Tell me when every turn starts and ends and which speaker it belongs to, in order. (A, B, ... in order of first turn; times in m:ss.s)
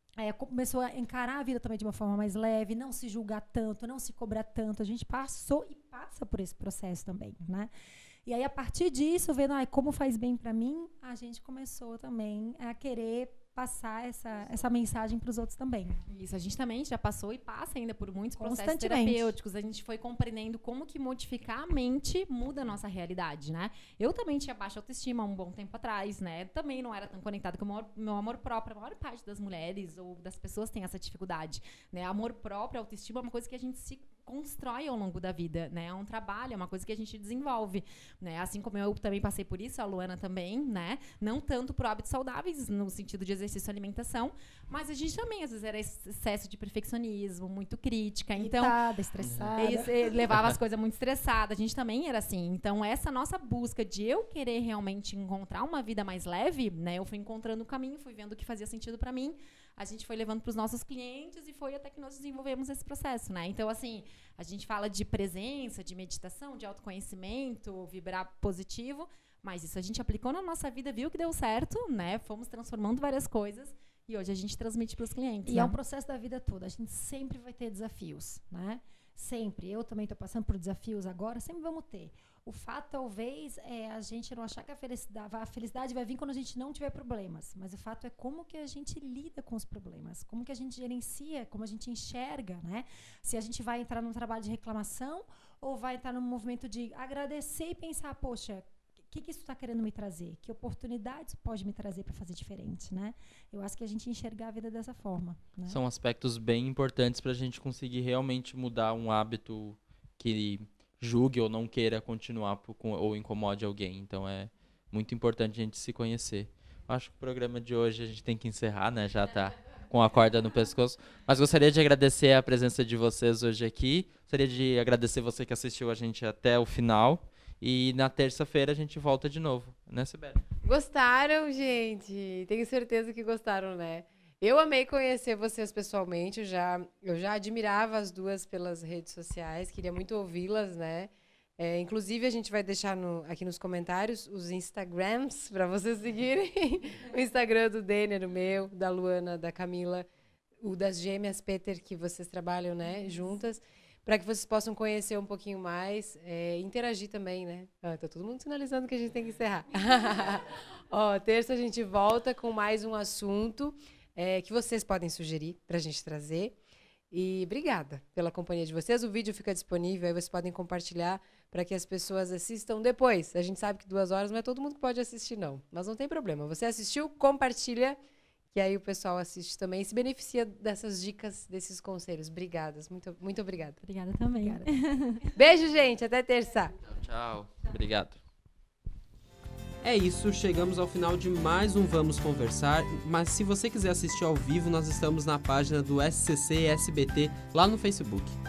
0:00.2-0:07.7 A
0:08.3-0:16.0 A
0:16.1-0:48.8 B
0:18.4-0:19.3 A
0:48.4-0:49.9 A
0:49.6-1:15.8 B
1:15.5-1:45.8 A
1:45.7-2:10.4 C
2:10.6-2:30.1 D
2:30.6-2:46.6 D
2:47.1-2:58.0 D
2:58.5-3:03.8 D
3:03.8-3:05.3 B
3:04.3-3:04.7 A
3:05.3-3:06.7 D
3:06.8-3:08.2 C
3:09.8-3:18.4 E